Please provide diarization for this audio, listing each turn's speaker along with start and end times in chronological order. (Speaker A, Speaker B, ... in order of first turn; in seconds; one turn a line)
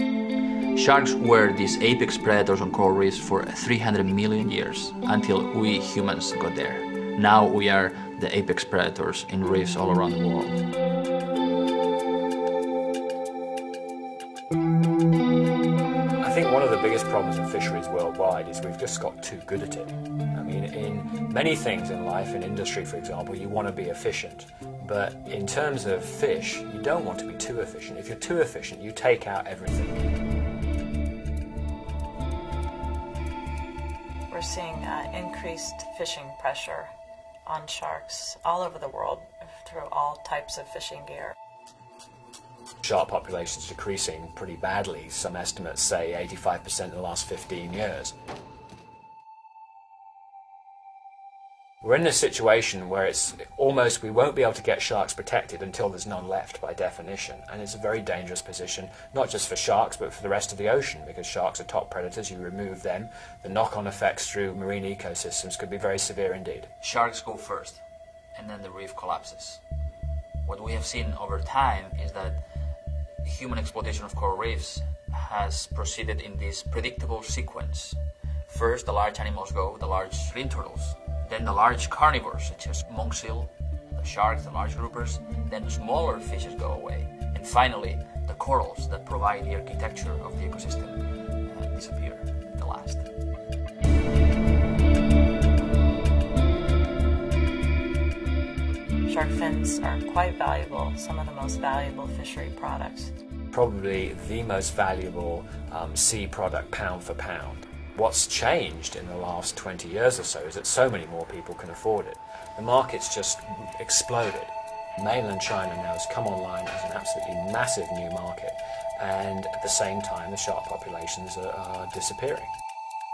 Speaker A: 0.8-10.7
Speaker B: 16.2-30.1
Speaker C: 34.3-36.9
Speaker C: 37.5-41.4
Speaker B: 42.8-48.1
Speaker B: 51.8-66.7
Speaker A: 66.8-67.8
Speaker A: 68.3-69.6
Speaker A: 70.5-72.4
Speaker A: 73.2-93.1
Speaker C: 99.1-103.1
Speaker B: 103.5-122.5